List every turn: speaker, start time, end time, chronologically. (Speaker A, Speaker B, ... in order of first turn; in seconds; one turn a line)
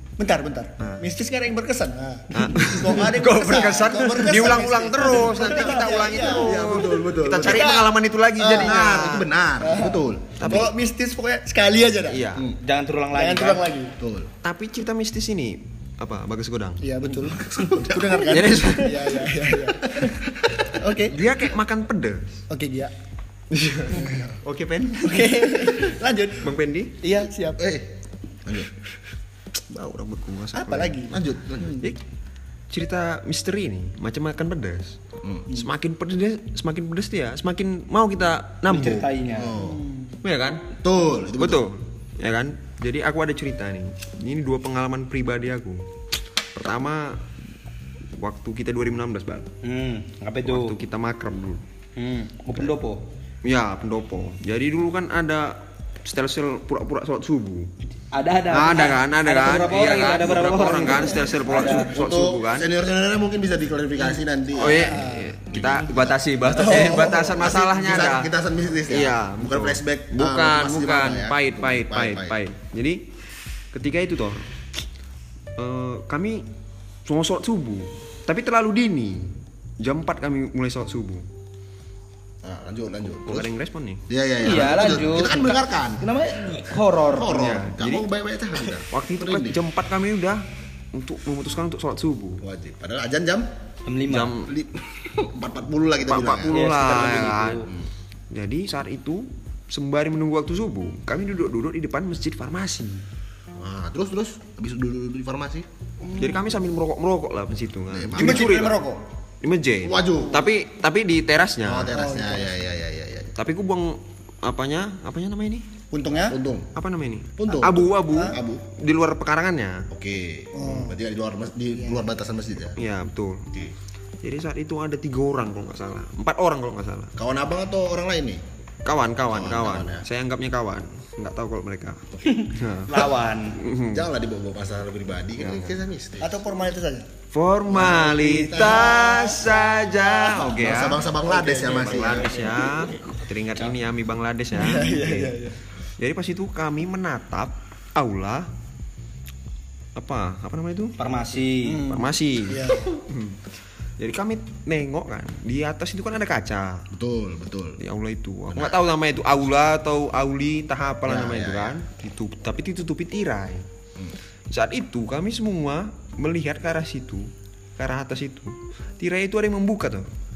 Speaker A: 0.2-9.0
Speaker B: 2.3-9.3
Speaker C: 6.2-10.7
Speaker A: 9.6-12.2
Speaker B: 10.4-10.7
Speaker B: 12.1-12.5
Speaker D: 12.6-13.7
Speaker A: 13.1-13.9
Speaker C: 14.0-14.3
Speaker B: 14.4-16.9
Speaker A: 16.8-20.1
Speaker C: 17.2-18.8
Speaker B: 18.3-19.1
Speaker C: 19.9-21.2
Speaker A: 20.9-21.1
Speaker B: 21.1-22.4
Speaker A: 22.5-22.9
Speaker B: 23.5-27.0
Speaker A: 25.0-26.5
Speaker A: 27.0-27.6
Speaker C: 27.6-28.7
Speaker B: 29.7-31.1
Speaker A: 30.5-31.7
Speaker C: 31.1-31.9
Speaker B: 32.7-35.0
Speaker C: 35.2-35.5
Speaker B: 35.5-39.1
Speaker D: 38.7-39.6
Speaker C: 39.3-39.8
Speaker A: 39.6-40.1
Speaker B: 40.2-40.6
Speaker C: 40.8-41.7
Speaker B: 41.4-45.9
Speaker B: 46.5-47.2
Speaker B: 48.1-49.5
Speaker D: 49.6-50.8
Speaker B: 50.5-51.6
Speaker D: 52.0-53.0
Speaker B: 53.4-57.7
Speaker D: 58.1-61.9
Speaker B: 58.5-62.7
Speaker C: 61.6-72.4
Speaker B: 64.6-68.3
Speaker A: 64.8-65.2
Speaker A: 66.6-67.3
Speaker B: 68.9-73.0
Speaker B: 73.7-74.5
Speaker B: 75.6-76.4
Speaker B: 77.1-81.2
Speaker C: 82.4-83.5
Speaker B: 83.0-84.0
Speaker C: 84.1-86.1
Speaker D: 84.4-87.5
Speaker C: 87.0-89.6
Speaker B: 87.3-88.1
Speaker B: 88.9-90.4
Speaker B: 90.9-92.4
Speaker C: 92.4-93.5
Speaker D: 93.9-94.3
Speaker B: 94.1-94.5
Speaker C: 94.5-96.6
Speaker B: 96.1-97.6
Speaker D: 96.5-97.7
Speaker B: 98.3-103.0
Speaker C: 103.6-105.7
Speaker B: 106.1-108.8
Speaker C: 107.9-108.8
Speaker A: 108.2-109.0
Speaker B: 109.4-112.0
Speaker C: 109.8-110.4
Speaker C: 111.6-113.3
Speaker A: 111.9-112.5
Speaker B: 113.4-115.7
Speaker A: 115.9-116.4
Speaker C: 116.3-116.7
Speaker B: 116.7-119.9
Speaker C: 117.4-118.6
Speaker A: 118.1-118.4
Speaker C: 119.9-122.8
Speaker A: 120.5-121.0
Speaker B: 122.8-123.6
Speaker B: 124.2-127.1
Speaker C: 127.2-128.4
Speaker B: 128.8-134.1
Speaker C: 129.3-130.1
Speaker D: 132.2-133.6
Speaker C: 133.9-136.3
Speaker B: 135.4-135.7
Speaker A: 136.2-137.1
Speaker B: 137.3-141.1
Speaker C: 137.7-139.3
Speaker A: 138.6-139.3
Speaker C: 140.4-142.6
Speaker A: 141.2-142.9
Speaker B: 141.6-145.4
Speaker A: 144.5-145.6
Speaker B: 146.0-148.5
Speaker B: 149.9-151.0
Speaker D: 151.0-151.8
Speaker A: 151.6-152.9
Speaker B: 151.7-153.4
Speaker B: 154.0-156.9
Speaker C: 156.9-157.8
Speaker B: 157.8-163.7
Speaker C: 158.5-158.8
Speaker C: 161.1-161.8
Speaker B: 164.5-170.1